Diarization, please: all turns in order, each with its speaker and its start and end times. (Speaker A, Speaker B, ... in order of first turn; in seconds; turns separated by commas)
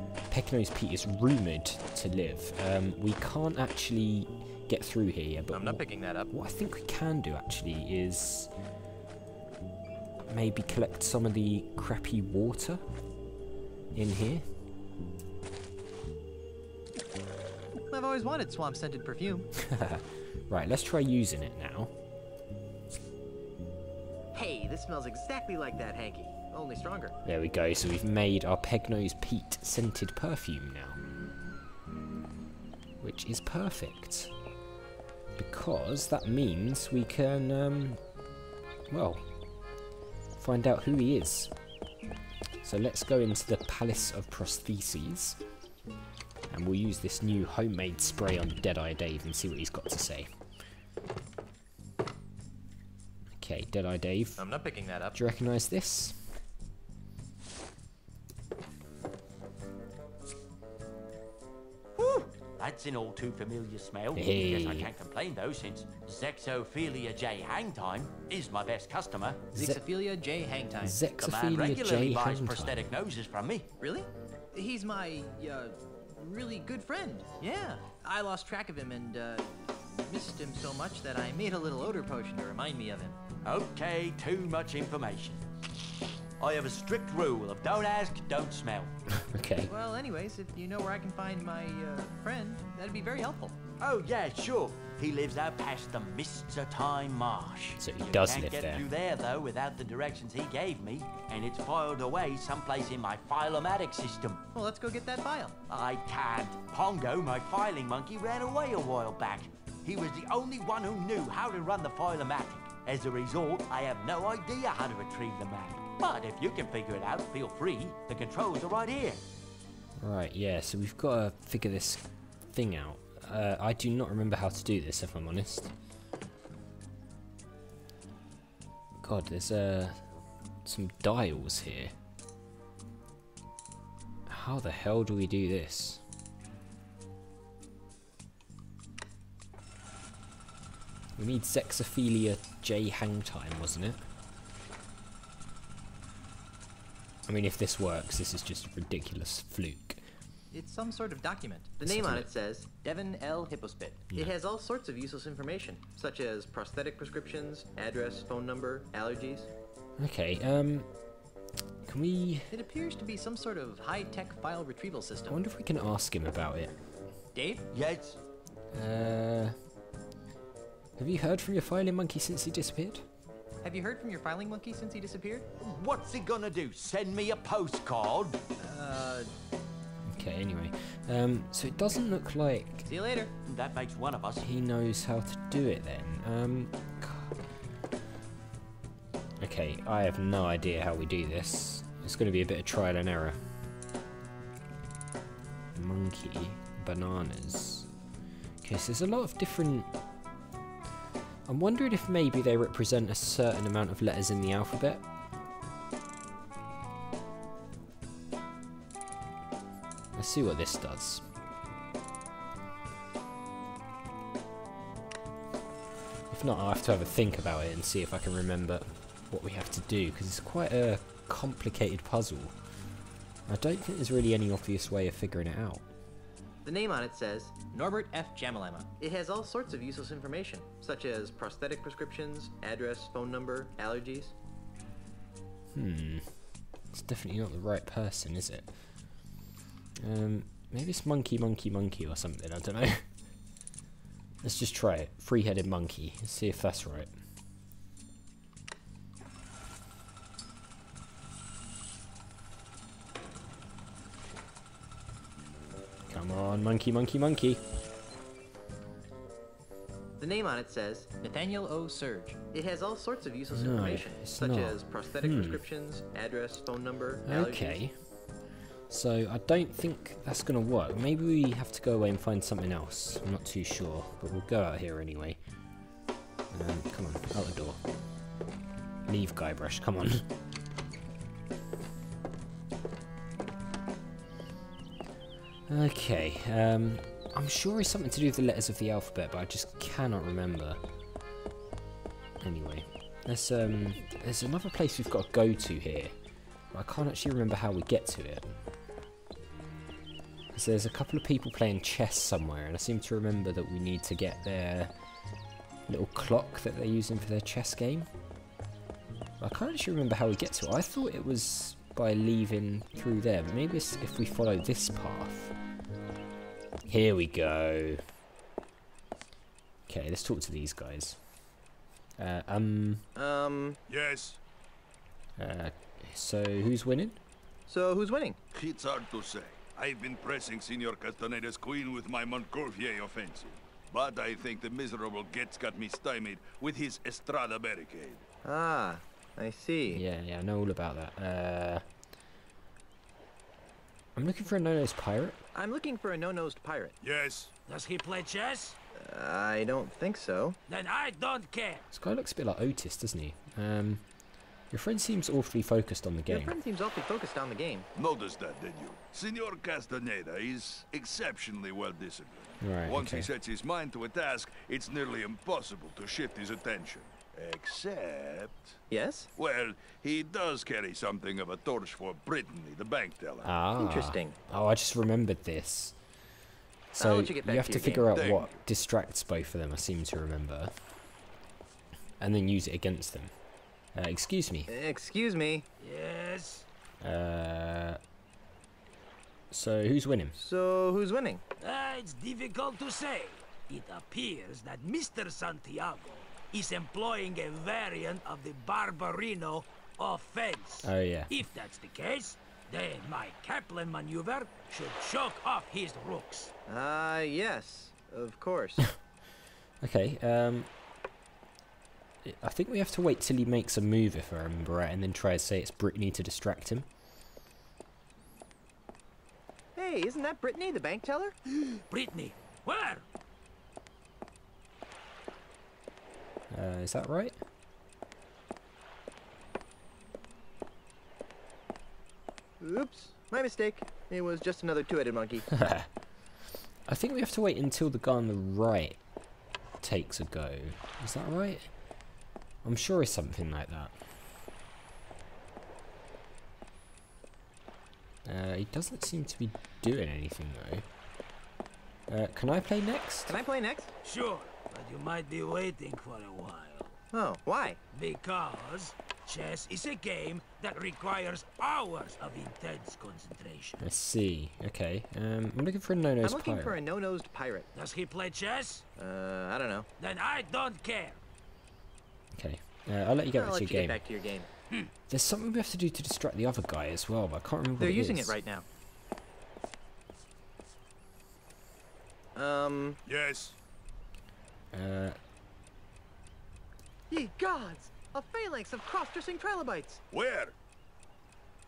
Speaker A: 0.3-8.5, Speaker B: 5.5-6.3, Speaker A: 10.3-12.8, Speaker A: 13.9-14.4, Speaker B: 17.9-19.5, Speaker A: 19.6-21.9, Speaker B: 24.3-27.2, Speaker A: 27.2-31.0, Speaker A: 33.0-34.3, Speaker A: 35.4-38.0, Speaker A: 38.9-39.2, Speaker A: 40.4-41.5, Speaker A: 42.6-45.4, Speaker A: 46.5-50.3, Speaker A: 53.4-54.4, Speaker B: 54.4-55.2, Speaker A: 55.1-56.2, Speaker B: 62.0-62.3, Speaker C: 62.6-69.4, Speaker A: 64.1-64.9, Speaker A: 69.5-69.8, Speaker B: 69.5-71.0, Speaker A: 70.8-72.8, Speaker C: 71.2-73.7, Speaker B: 73.8-83.2, Speaker C: 83.4-85.4, Speaker C: 86.4-88.9, Speaker A: 89.1-89.7, Speaker B: 89.7-93.6, Speaker C: 93.8-104.4, Speaker A: 97.8-98.8, Speaker B: 104.5-105.5, Speaker C: 105.7-119.2, Speaker A: 120.0-125.7, Speaker A: 129.0-130.0, Speaker A: 130.6-131.9, Speaker A: 134.3-136.0, Speaker A: 141.2-144.0, Speaker A: 147.2-150.0, Speaker B: 150.5-159.5, Speaker A: 151.8-152.3, Speaker A: 160.0-160.9, Speaker A: 161.8-162.5, Speaker B: 162.5-165.4, Speaker A: 165.3-166.7, Speaker B: 167.3-167.7, Speaker C: 167.7-168.2, Speaker A: 168.7-169.6, Speaker A: 171.0-173.1, Speaker B: 173.6-175.5, Speaker C: 175.6-178.4, Speaker B: 178.6-179.3, Speaker A: 180.1-182.9, Speaker B: 182.9-183.3, Speaker C: 183.4-184.5, Speaker A: 184.4-187.3, Speaker A: 189.4-193.4, Speaker A: 195.7-197.9, Speaker A: 198.6-199.9, Speaker A: 201.4-205.0, Speaker A: 210.1-211.2, Speaker A: 216.3-222.5, Speaker A: 223.5-225.8, Speaker B: 226.6-234.3, Speaker A: 235.7-236.3, Speaker A: 236.9-238.7, Speaker A: 240.0-243.0, Speaker A: 244.4-247.1, Speaker A: 256.1-257.6, Speaker B: 260.2-267.8, Speaker A: 263.5-265.6, Speaker A: 267.2-267.9, Speaker A: 268.9-275.4, Speaker A: 276.5-277.8, Speaker A: 279.1-280.2, Speaker A: 285.7-290.8, Speaker A: 292.4-296.1, Speaker A: 296.7-298.5, Speaker A: 300.5-304.9, Speaker A: 305.9-308.1, Speaker A: 309.4-315.5, Speaker A: 316.9-318.0, Speaker A: 319.9-321.2, Speaker A: 322.2-323.0, Speaker B: 323.1-323.8, Speaker D: 323.9-324.4, Speaker A: 325.4-327.2, Speaker B: 327.7-328.4, Speaker D: 328.5-338.2, Speaker B: 338.4-340.0, Speaker A: 339.9-341.8, Speaker A: 344.1-345.4, Speaker B: 345.5-346.9, Speaker D: 347.0-347.5, Speaker E: 347.7-348.8, Speaker B: 348.9-350.6, Speaker E: 350.7-351.9, Speaker A: 351.9-354.0, Speaker A: 354.7-356.6, Speaker B: 356.3-357.9, Speaker D: 357.9-368.8, Speaker A: 362.6-363.3, Speaker B: 368.9-369.3, Speaker D: 369.4-373.5, Speaker A: 373.4-375.9, Speaker B: 373.8-374.4, Speaker A: 376.9-380.7, Speaker B: 377.0-378.1, Speaker D: 378.1-378.6, Speaker A: 382.2-383.3, Speaker A: 383.9-384.7, Speaker B: 384.7-385.6, Speaker E: 385.8-386.6, Speaker A: 387.0-388.0, Speaker A: 389.5-390.4, Speaker B: 390.3-391.4, Speaker E: 391.6-406.5, Speaker A: 400.8-401.4, Speaker B: 406.7-408.9, Speaker A: 409.8-410.7, Speaker A: 412.2-416.9, Speaker B: 419.8-421.3, Speaker E: 421.5-423.0, Speaker A: 426.5-427.4, Speaker B: 432.6-435.5, Speaker A: 435.5-435.9, Speaker A: 436.9-439.0, Speaker A: 439.8-441.7, Speaker A: 442.6-443.9, Speaker A: 448.2-450.9, Speaker A: 452.1-453.3, Speaker B: 453.3-453.9, Speaker E: 454.0-456.9, Speaker B: 457.1-457.8, Speaker E: 457.9-463.8, Speaker A: 463.8-466.8, Speaker B: 466.2-467.7, Speaker E: 467.7-468.8, Speaker B: 469.0-469.9, Speaker E: 470.0-471.2, Speaker A: 472.3-474.0, Speaker B: 473.3-474.5, Speaker A: 475.1-478.4, Speaker B: 477.8-478.6, Speaker B: 482.3-483.0, Speaker D: 483.1-483.5, Speaker A: 484.7-485.2, Speaker B: 487.1-490.0, Speaker D: 490.1-490.5